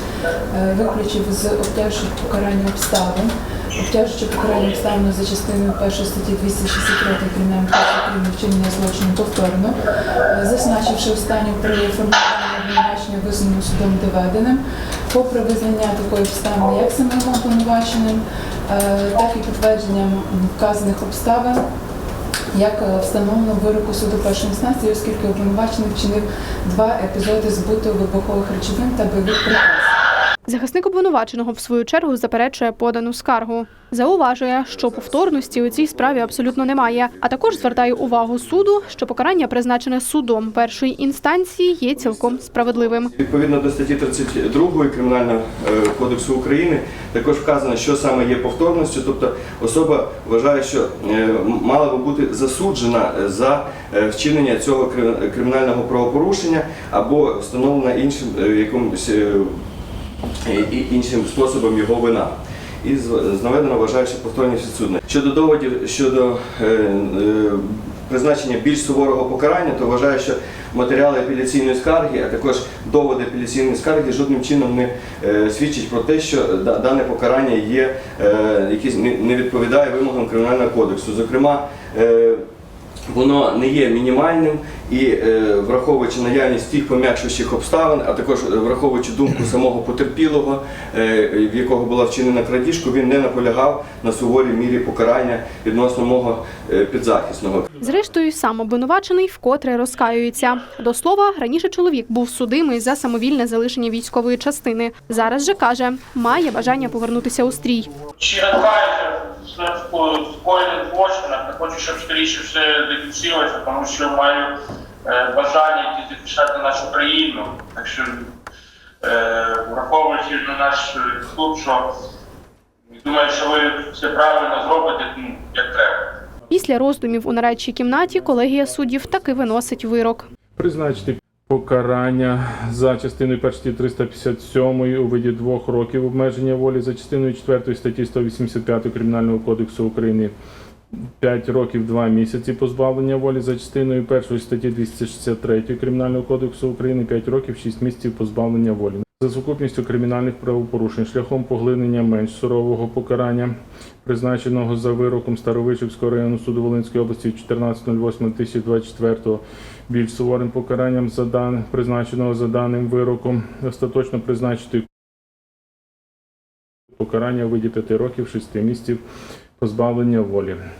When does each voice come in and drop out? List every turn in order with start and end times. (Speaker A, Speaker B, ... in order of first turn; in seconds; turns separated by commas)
Speaker A: 0.5-21.6, Speaker A: 22.5-29.9, Speaker B: 30.5-43.1, Speaker C: 34.6-38.6, Speaker C: 41.9-59.5, Speaker C: 60.4-82.4, Speaker C: 83.1-97.7, Speaker B: 97.8-107.9, Speaker D: 108.2-114.5, Speaker D: 115.0-118.3, Speaker D: 119.0-121.8, Speaker D: 123.0-126.0, Speaker B: 126.5-130.2, Speaker E: 130.6-140.3, Speaker E: 141.2-164.8, Speaker E: 167.0-169.0, Speaker E: 169.6-170.6